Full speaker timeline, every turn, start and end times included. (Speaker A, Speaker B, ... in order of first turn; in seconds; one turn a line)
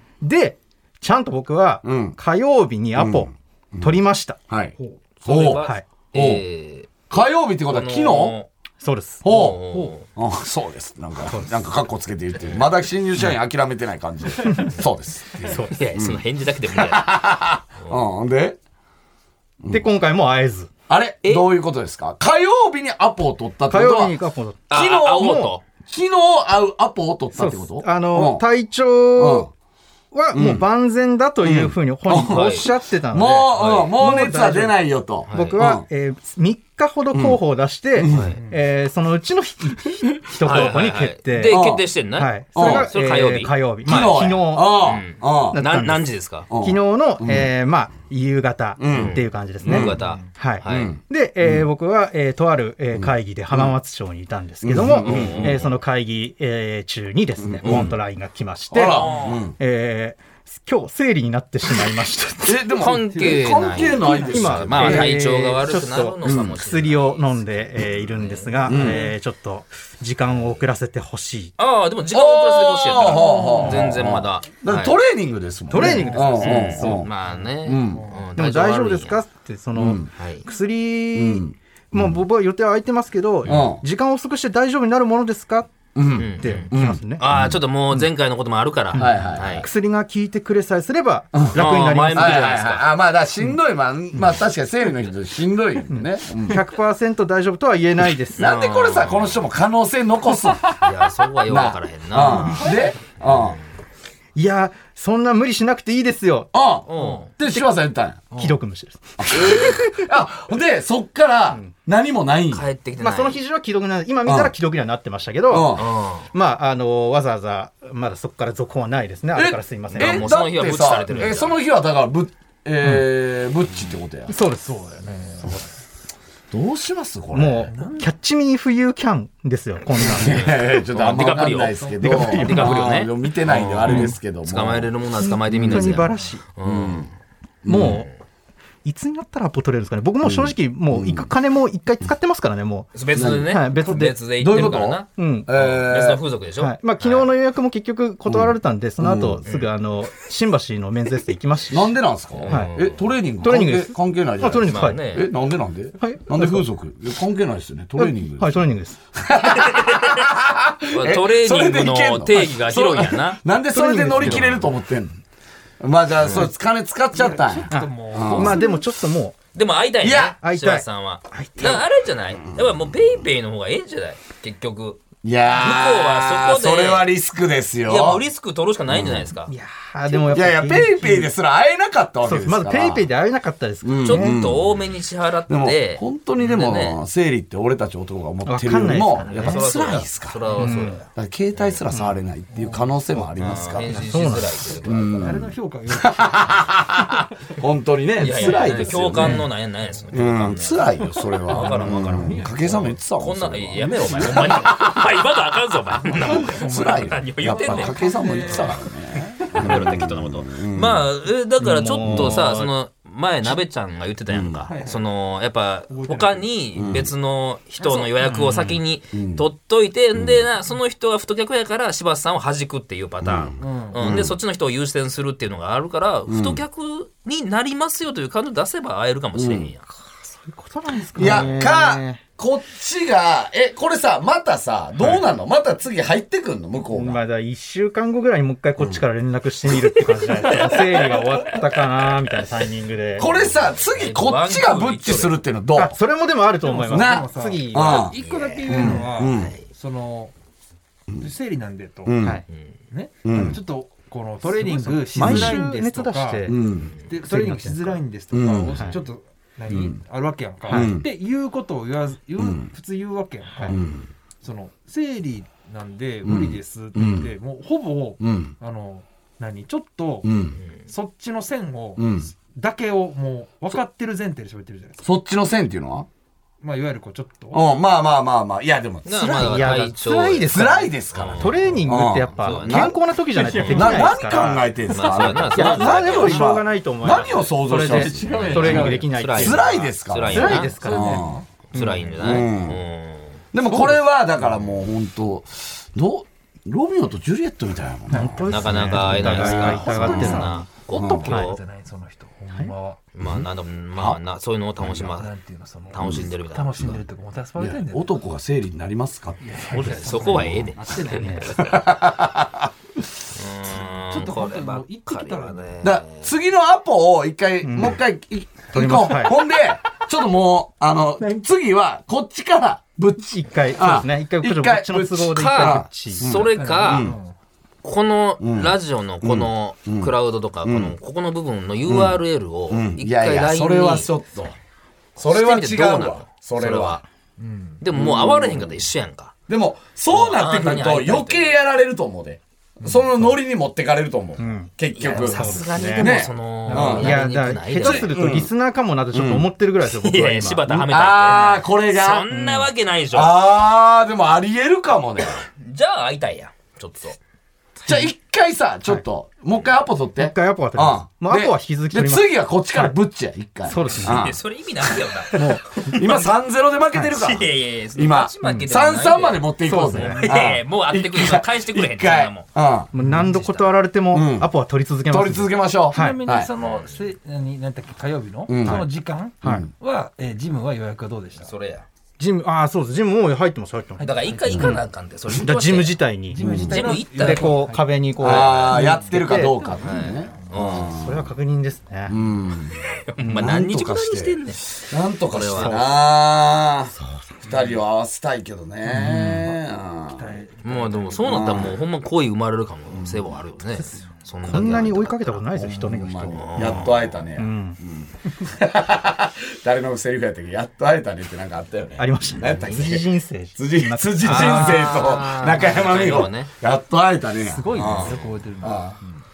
Speaker A: 0.2-4.4
Speaker B: 1.8-2.2
Speaker B: 3.0-4.7
Speaker C: 5.2-6.9
Speaker B: 5.2-6.5
Speaker A: 5.5-5.8
Speaker B: 7.1-8.4
Speaker C: 7.7-8.5
Speaker A: 8.8-9.2
Speaker B: 9.2-18.6
Speaker C: 9.2-10.1
Speaker A: 11.3-11.6
Speaker A: 15.4-15.7
Speaker C: 15.7-17.2
Speaker A: 19.7-20.7
Speaker B: 20.9-24.1
Speaker A: 23.7-25.5
Speaker C: 24.7-25.6
Speaker B: 24.7-28.4
Speaker A: 27.3-29.5
Speaker B: 29.1-29.5
Speaker A: 30.1-41.5
Speaker B: 30.3-30.6
Speaker B: 31.4-35.8
Speaker C: 32.2-32.6
Speaker C: 33.6-33.9
Speaker C: 35.3-35.6
Speaker B: 37.1-37.4
Speaker B: 37.9-38.4
Speaker C: 38.1-38.4
Speaker B: 40.4-40.7
Speaker C: 40.4-44.0
Speaker B: 41.4-41.8
Speaker A: 42.1-44.9
Speaker B: 42.5-42.9
Speaker B: 43.8-45.6
Speaker C: 44.8-46.5
Speaker A: 45.5-62.7
Speaker B: 46.5-47.5
Speaker B: 48.8-50.0
Speaker C: 48.9-50.9
Speaker D: 50.0-50.3
Speaker B: 50.6-51.7
Speaker B: 53.0-53.7
Speaker B: 54.6-55.6
Speaker C: 55.0-55.7
Speaker B: 57.4-58.0
Speaker B: 58.7-59.6
Speaker C: 58.8-59.4
Speaker B: 62.4-65.2
Speaker C: 62.8-68.9
Speaker D: 63.1-65.1
Speaker A: 64.3-71.5
Speaker B: 66.2-66.6
Speaker B: 68.7-69.0
Speaker D: 68.8-69.1
Speaker C: 71.6-75.0
Speaker B: 72.1-77.1
Speaker D: 73.0-73.8
Speaker A: 75.7-77.1
Speaker C: 75.8-79.2
Speaker D: 77.3-78.2
Speaker B: 77.6-78.0
Speaker A: 78.3-85.8
Speaker B: 79.8-80.1
Speaker C: 80.2-80.5
Speaker B: 81.1-82.2
Speaker B: 83.5-83.8
Speaker B: 85.9-87.6
Speaker C: 86.2-89.7
Speaker A: 86.4-87.2
Speaker B: 88.9-89.7
Speaker A: 88.9-92.6
Speaker B: 91.3-91.6
Speaker C: 91.5-92.9
Speaker B: 92.1-96.6
Speaker A: 95.9-98.4
Speaker B: 98.3-100.8
Speaker C: 98.4-99.4
Speaker C: 100.8-103.6
Speaker B: 101.5-103.6
Speaker D: 102.2-103.0
Speaker A: 104.3-107.7
Speaker B: 106.5-108.3
Speaker C: 106.9-107.3
Speaker A: 108.3-110.0
Speaker B: 109.2-112.6
Speaker C: 109.3-109.8
Speaker C: 112.5-113.4
Speaker A: 113.0-120.3
Speaker B: 114.2-114.5
Speaker B: 115.5-115.9
Speaker C: 115.8-116.3
Speaker B: 119.3-124.3
Speaker C: 119.9-121.6
Speaker A: 124.3-124.8
Speaker D: 124.6-125.7
Speaker A: 125.4-125.7
Speaker B: 126.5-127.7
Speaker A: 127.3-130.5
Speaker D: 127.7-128.1
Speaker B: 129.9-134.9
Speaker C: 130.2-137.1
Speaker D: 131.7-132.5
Speaker A: 132.0-132.9
Speaker A: 133.9-134.1
Speaker A: 135.2-136.4
Speaker B: 135.4-136.0
Speaker B: 136.6-137.1
Speaker B: 137.6-138.0
Speaker A: 137.7-138.1
Speaker C: 137.7-138.1
Speaker A: 138.8-144.2
Speaker B: 140.2-141.3
Speaker C: 142.9-147.3
Speaker B: 143.1-143.6
Speaker B: 144.4-146.2
Speaker A: 145.2-145.5
Speaker A: 146.6-151.9
Speaker B: 148.3-149.4
Speaker B: 151.7-165.2
Speaker C: 152.3-153.0
Speaker A: 153.4-155.0
Speaker C: 154.6-155.3
Speaker A: 156.0-156.6
Speaker A: 158.0-159.0
Speaker C: 159.6-160.3
Speaker C: 160.9-163.4
Speaker A: 163.7-164.6
Speaker C: 164.2-164.5
Speaker B: 165.8-168.6
Speaker D: 167.1-168.8
Speaker A: 167.7-169.3
Speaker C: 169.5-175.0
Speaker B: 170.0-170.4
Speaker A: 170.4-171.7
Speaker B: 171.6-171.8
Speaker B: 172.4-173.1
Speaker B: 175.2-178.2
Speaker C: 175.5-177.1
Speaker C: 177.9-179.5
Speaker B: 178.9-179.3
Speaker A: 179.5-181.3
Speaker B: 180.1-183.1
Speaker A: 182.2-184.4
Speaker B: 183.8-184.8
Speaker C: 184.0-187.0
Speaker B: 185.5-194.1
Speaker A: 188.4-189.6
Speaker C: 189.2-191.8
Speaker A: 190.6-191.0
Speaker A: 191.9-192.2
Speaker D: 192.5-192.9
Speaker C: 193.4-195.4
Speaker A: 193.9-194.5
Speaker B: 194.8-199.5
Speaker D: 194.9-196.9
Speaker C: 198.2-208.8
Speaker D: 198.3-199.4
Speaker B: 200.1-205.1
Speaker D: 201.5-202.8
Speaker D: 203.8-204.8
Speaker D: 206.0-208.9
Speaker B: 206.3-211.1
Speaker D: 209.4-210.0
Speaker C: 209.5-229.8
Speaker A: 211.6-212.7
Speaker B: 212.0-212.4
Speaker B: 214.3-214.7
Speaker D: 214.7-215.0
Speaker D: 215.9-216.5
Speaker B: 216.7-217.1
Speaker D: 217.8-218.3
Speaker A: 218.2-218.7
Speaker B: 219.1-219.4
Speaker B: 220.1-220.4
Speaker B: 223.2-224.4
Speaker D: 223.6-224.2
Speaker B: 226.3-226.6
Speaker B: 229.3-229.7
Speaker A: 229.9-232.2
Speaker B: 231.1-237.2
Speaker C: 231.2-231.5
Speaker A: 236.9-243.3
Speaker C: 240.4-241.2
Speaker B: 240.5-241.1
Speaker B: 243.2-246.0
Speaker C: 243.2-245.4
Speaker A: 245.7-248.1
Speaker D: 246.6-250.3
Speaker B: 246.9-249.5
Speaker C: 248.1-249.7
Speaker D: 251.2-252.2
Speaker B: 252.0-252.4
Speaker D: 252.9-263.8
Speaker B: 253.2-253.6
Speaker A: 254.4-256.6
Speaker B: 255.2-255.6
Speaker B: 256.5-256.9
Speaker A: 257.2-258.0
Speaker B: 258.3-259.0
Speaker B: 259.7-260.0
Speaker A: 260.7-260.9
Speaker B: 260.7-261.1
Speaker B: 262.4-262.7
Speaker B: 263.7-264.1
Speaker D: 264.4-270.3
Speaker B: 266.2-267.3
Speaker B: 268.2-268.5
Speaker B: 270.2-270.6
Speaker D: 270.9-275.1
Speaker B: 272.0-272.3
Speaker B: 275.0-276.1
Speaker D: 276.6-277.6
Speaker B: 277.5-279.8
Speaker C: 279.1-281.8
Speaker A: 279.2-284.7
Speaker B: 280.5-283.0
Speaker C: 282.3-283.9
Speaker D: 283.3-285.5
Speaker B: 283.7-291.4
Speaker C: 284.9-286.5
Speaker A: 285.6-289.6
Speaker C: 287.1-287.4
Speaker D: 287.8-289.0
Speaker C: 288.2-291.1
Speaker A: 290.3-292.0
Speaker D: 290.5-291.4
Speaker C: 291.7-293.4
Speaker B: 292.2-292.8
Speaker B: 293.5-301.3
Speaker D: 298.1-303.0
Speaker A: 298.1-300.7
Speaker C: 298.5-301.6
Speaker A: 301.2-301.5
Speaker C: 303.1-305.3
Speaker B: 303.2-304.2
Speaker B: 304.8-305.1
Speaker D: 304.9-308.1
Speaker C: 305.9-307.0
Speaker B: 306.0-306.3
Speaker B: 307.6-309.9
Speaker D: 309.4-311.8
Speaker C: 309.7-311.8
Speaker A: 311.1-311.5
Speaker B: 311.5-312.7
Speaker C: 313.3-316.3
Speaker D: 313.6-315.9
Speaker B: 315.8-327.1
Speaker A: 317.6-318.0
Speaker A: 318.7-319.4
Speaker A: 323.2-326.3
Speaker C: 325.3-327.1
Speaker D: 326.5-327.3
Speaker C: 327.8-334.1
Speaker B: 328.4-330.9
Speaker B: 331.9-334.5
Speaker C: 335.1-337.0
Speaker B: 335.2-337.0
Speaker D: 337.4-337.8
Speaker C: 337.8-339.3
Speaker B: 337.9-338.8
Speaker B: 339.5-347.3
Speaker C: 340.1-341.6
Speaker A: 344.4-350.8
Speaker C: 345.0-348.1
Speaker B: 347.8-348.5
Speaker B: 349.1-349.5
Speaker C: 349.8-353.4
Speaker B: 350.7-352.3
Speaker A: 352.3-352.7
Speaker B: 353.1-355.4
Speaker C: 355.6-357.2
Speaker A: 357.8-358.1
Speaker B: 357.9-364.4
Speaker A: 360.2-362.9
Speaker A: 363.7-364.3
Speaker C: 364.0-366.3
Speaker B: 364.9-372.9
Speaker A: 365.3-365.6
Speaker C: 367.1-372.5
Speaker A: 369.6-370.2
Speaker A: 372.9-376.2
Speaker C: 373.1-373.7
Speaker B: 374.1-374.5
Speaker B: 375.1-376.5
Speaker D: 375.9-381.5
Speaker C: 376.6-377.1
Speaker B: 378.5-378.9
Speaker A: 379.4-379.7
Speaker B: 379.4-379.7
Speaker C: 381.4-381.9
Speaker A: 382.2-386.4
Speaker D: 384.0-384.8
Speaker C: 384.0-387.7
Speaker B: 384.5-384.8
Speaker D: 386.3-387.9
Speaker B: 386.4-386.8
Speaker A: 387.1-389.6
Speaker B: 388.2-391.3
Speaker C: 388.2-388.9
Speaker D: 388.6-390.9
Speaker C: 389.8-390.9
Speaker A: 390.9-392.1
Speaker B: 392.1-392.8
Speaker C: 392.8-394.6
Speaker A: 393.2-393.5
Speaker B: 393.3-400.3
Speaker C: 395.3-395.8
Speaker A: 395.6-395.9
Speaker A: 396.9-397.4
Speaker C: 398.9-399.4
Speaker A: 399.0-399.3
Speaker D: 400.1-401.7
Speaker C: 400.6-405.4
Speaker B: 401.2-401.8
Speaker B: 402.9-403.4
Speaker A: 403.8-407.8
Speaker B: 405.5-419.0
Speaker C: 406.3-407.2
Speaker A: 412.0-415.1
Speaker C: 412.6-412.9
Speaker C: 414.2-416.5
Speaker D: 417.4-419.2
Speaker C: 417.8-418.2